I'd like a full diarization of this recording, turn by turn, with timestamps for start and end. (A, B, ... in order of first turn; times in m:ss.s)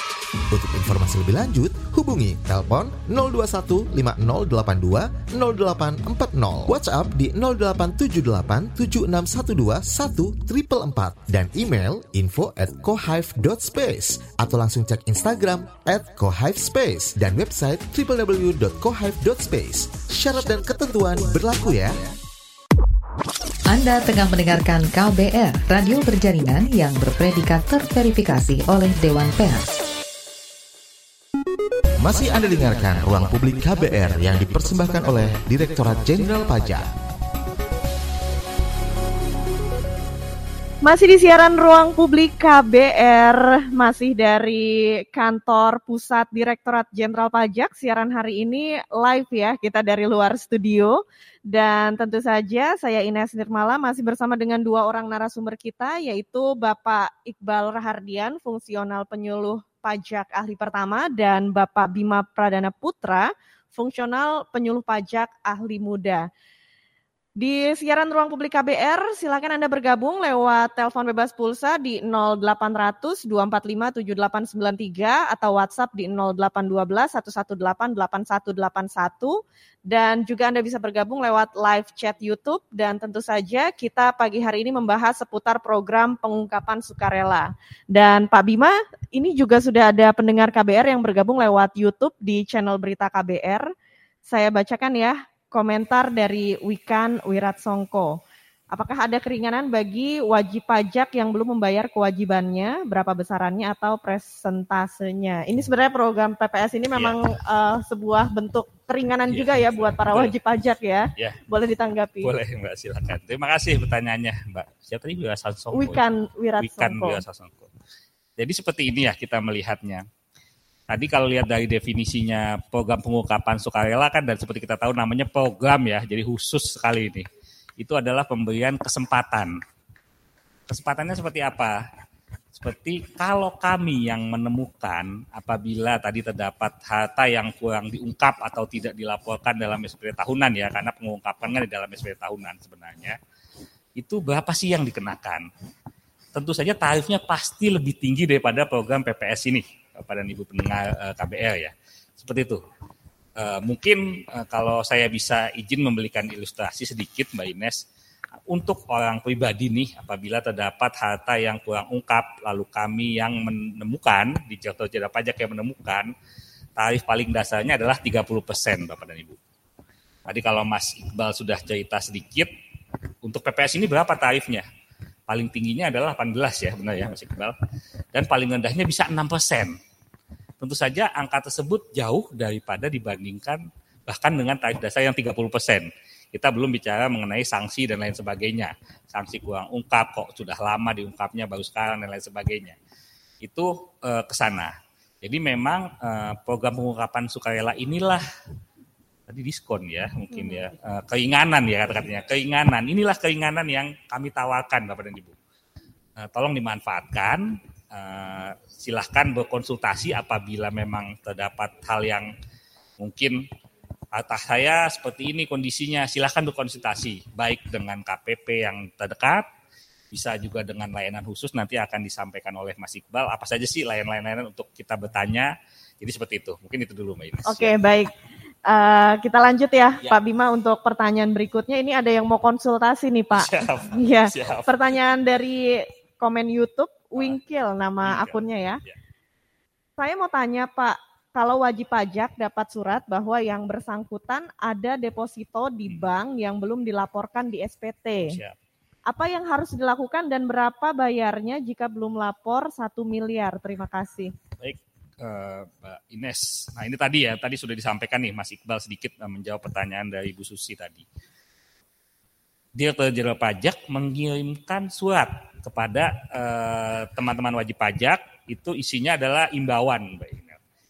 0:00.5-0:22.0 A
0:23.7-0:29.7 B
0:32.0-0:36.8 A
0:40.8-1:06.3 C
1:07.4-1:33.6 C
1:34.3-1:38.2 C
1:38.7-1:52.3 C
1:49.3-1:50.3 D
1:52.2-1:56.0 D
1:55.7-1:57.2 C
1:56.6-1:57.7 D
1:58.4-2:00.0 D
2:00.9-2:07.3 D
2:07.8-2:09.5 D
2:10.7-2:11.8 D
2:12.5-2:23.2 D
2:24.0-2:25.5 D
2:26.3-2:32.6 D
2:33.4-2:37.8 D
2:38.5-2:46.1 D
2:46.8-2:49.4 D
2:50.2-2:52.5 D
2:53.2-2:54.6 D
2:55.3-2:57.6 D
2:58.1-2:59.8 D
3:00.6-3:12.8 D
3:13.4-3:18.2 D
3:19.3-3:25.4 D
3:20.3-3:20.6 C
3:26.2-3:32.3 D
3:33.0-3:33.4 D
3:34.1-3:39.4 D
3:40.1-3:47.7 D
3:47.5-3:48.1 C
3:48.7-3:58.8 C
3:53.3-3:54.8 D
3:58.0-3:59.0 D
4:00.0-4:08.4 C
4:08.2-4:08.6 D
4:09.1-4:14.3 C
4:14.6-4:21.0 D
4:22.8-4:30.6 D